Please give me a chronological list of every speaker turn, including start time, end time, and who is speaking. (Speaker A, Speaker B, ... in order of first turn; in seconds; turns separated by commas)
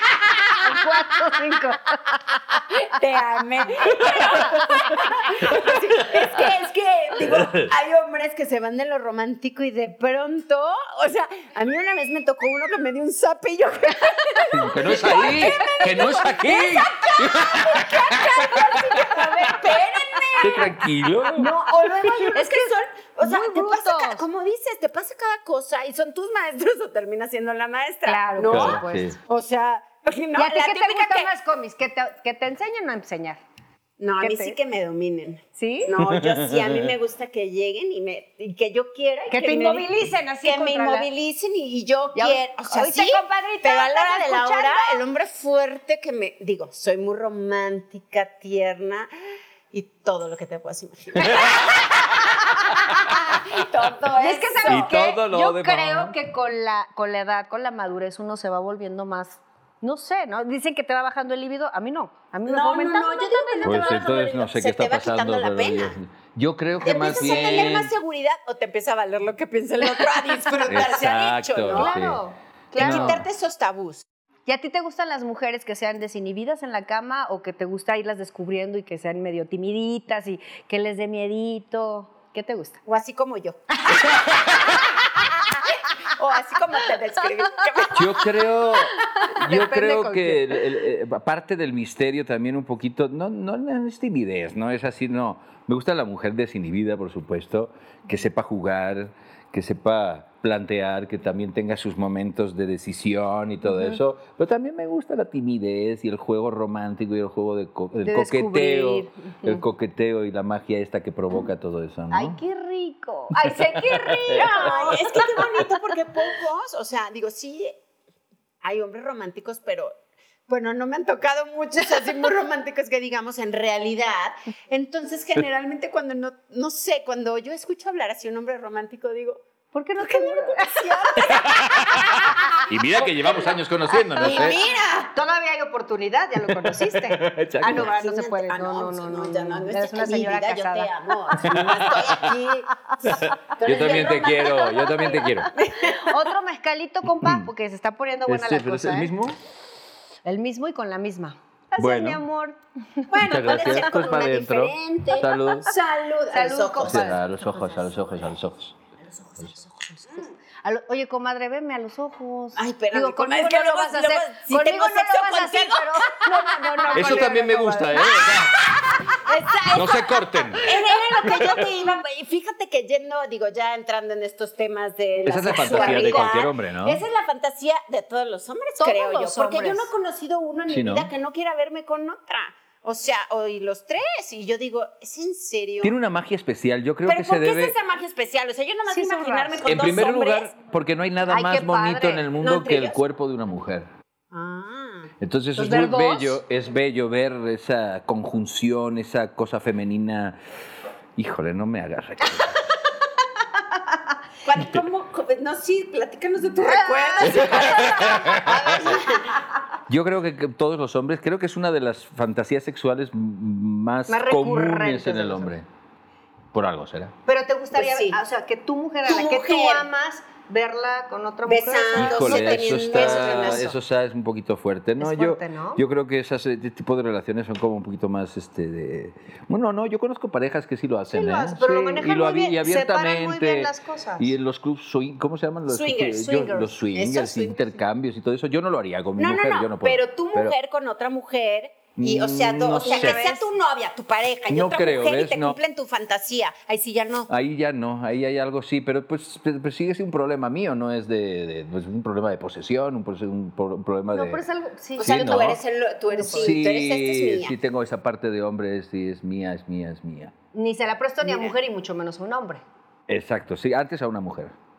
Speaker A: 0.6-2.5, Speaker B: 2.5-20.8, Speaker C: 3.8-6.3, Speaker A: 4.4-4.9, Speaker C: 7.2-7.7, Speaker A: 14.3-16.2, Speaker C: 14.5-18.9, Speaker A: 18.1-20.6, Speaker C: 20.4-21.5, Speaker A: 21.3-24.3, Speaker B: 21.3-31.3, Speaker A: 28.1-29.2, Speaker C: 28.5-29.2, Speaker A: 30.4-33.4, Speaker B: 34.0-39.9, Speaker A: 34.2-34.6, Speaker A: 35.6-35.9, Speaker C: 36.0-36.9, Speaker A: 39.3-41.1, Speaker B: 40.4-49.1, Speaker A: 42.1-45.0, Speaker B: 49.7-54.9, Speaker C: 51.2-51.8, Speaker C: 52.9-53.1, Speaker A: 54.2-63.8, Speaker C: 54.6-56.1, Speaker B: 62.5-66.0, Speaker C: 63.6-67.9, Speaker B: 66.8-72.0, Speaker C: 70.6-72.2, Speaker A: 71.7-73.2, Speaker B: 72.8-74.1, Speaker C: 72.8-73.2, Speaker A: 74.5-82.8, Speaker B: 82.9-84.8, Speaker A: 83.9-85.2, Speaker B: 85.5-88.3, Speaker C: 87.9-112.4, Speaker A: 88.8-90.7, Speaker A: 103.7-104.0, Speaker A: 108.1-109.7, Speaker A: 112.1-115.6, Speaker C: 113.3-115.3, Speaker B: 114.3-117.8, Speaker B: 118.6-120.0, Speaker B: 120.5-129.4, Speaker A: 129.7-132.6, Speaker B: 130.0-133.5, Speaker C: 131.2-134.6, Speaker A: 133.9-134.6, Speaker B: 134.2-135.1, Speaker A: 135.1-141.5, Speaker C: 136.4-137.9, Speaker B: 137.6-146.1, Speaker C: 141.4-142.1, Speaker C: 143.1-145.5, Speaker A: 143.8-145.0, Speaker A: 145.6-149.1, Speaker C: 147.2-147.5, Speaker C: 148.3-149.4, Speaker A: 150.2-154.0, Speaker C: 151.8-152.2, Speaker B: 153.1-157.2, Speaker C: 153.2-155.7, Speaker A: 156.3-157.9, Speaker C: 156.8-158.8, Speaker A: 159.4-167.4, Speaker B: 162.6-170.1, Speaker C: 166.9-168.9, Speaker A: 168.2-171.2, Speaker C: 169.7-171.6, Speaker B: 170.6-186.0, Speaker C: 175.3-177.0, Speaker A: 175.5-176.2, Speaker A: 178.8-179.9, Speaker C: 180.7-181.1, Speaker C: 185.8-187.8, Speaker B: 187.1-190.5, Speaker A: 188.9-189.7, Speaker C: 189.6-193.9, Speaker A: 191.2-192.3, Speaker B: 192.4-193.0, Speaker B: 194.3-195.1, Speaker C: 195.2-200.4, Speaker A: 195.6-196.4, Speaker C: 201.2-202.6, Speaker B: 204.4-209.4, Speaker C: 204.6-204.8, Speaker A: 206.6-207.9, Speaker C: 207.2-208.9, Speaker C: 209.9-215.7, Speaker A: 214.1-215.5, Speaker C: 216.5-217.2, Speaker A: 217.3-223.7, Speaker B: 217.7-218.2, Speaker B: 219.1-219.8, Speaker B: 221.4-223.8, Speaker C: 221.9-240.6, Speaker A: 225.0-225.8, Speaker A: 231.1-234.3, Speaker B: 235.7-237.8, Speaker B: 239.2-247.3, Speaker C: 242.0-243.2, Speaker A: 242.7-243.5, Speaker C: 244.5-245.6, Speaker C: 247.3-254.4, Speaker A: 254.1-255.4, Speaker B: 255.0-257.5, Speaker C: 255.0-255.6, Speaker A: 256.1-256.6, Speaker C: 256.4-260.3, Speaker A: 260.5-262.6, Speaker B: 261.2-261.5, Speaker C: 263.1-264.6